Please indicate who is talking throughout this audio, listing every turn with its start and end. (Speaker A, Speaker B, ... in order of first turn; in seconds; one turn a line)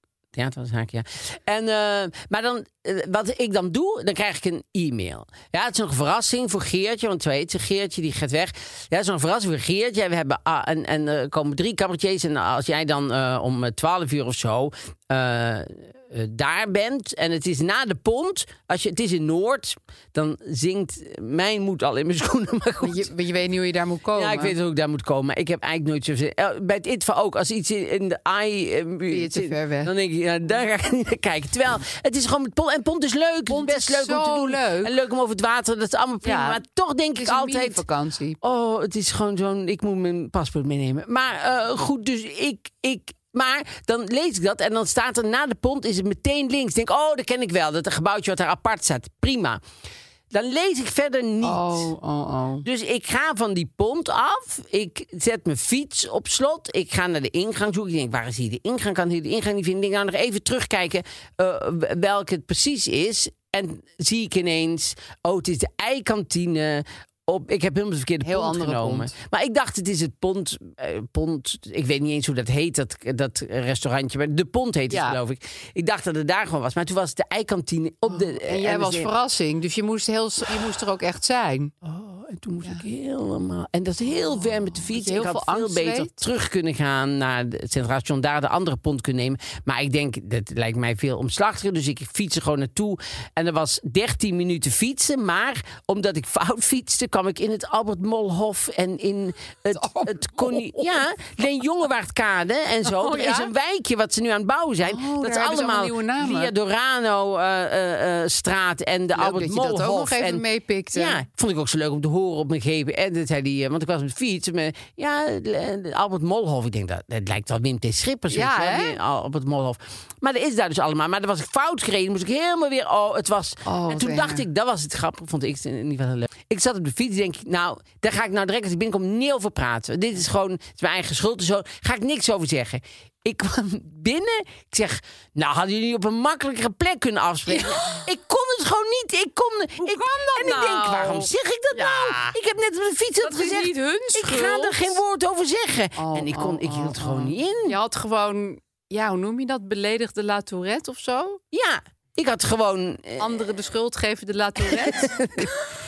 Speaker A: 0.3-23.1
Speaker B: 22.8-24.5
Speaker A: 24.1-37.8
Speaker B: 29.1-29.9
Speaker B: 33.5-35.0
Speaker B: 36.2-36.6
Speaker B: 37.2-38.4
Speaker A: 38.4-49.6
Speaker A: 50.3-51.9
Speaker B: 51.4-52.6
Speaker A: 52.6-79.1
Speaker B: 68.2-69.2
Speaker B: 74.9-75.2
Speaker B: 78.1-81.7
Speaker A: 81.8-147.8
Speaker B: 84.4-86.2
Speaker B: 99.7-100.8
Speaker B: 102.9-103.5
Speaker B: 104.9-106.5
Speaker B: 109.1-111.2
Speaker B: 118.3-119.0
Speaker B: 123.6-124.4
Speaker B: 137.5-138.0
Speaker B: 139.8-142.3
Speaker B: 143.2-145.0
Speaker B: 145.9-151.4
Speaker A: 151.5-153.4
Speaker B: 153.2-155.5
Speaker A: 154.6-155.5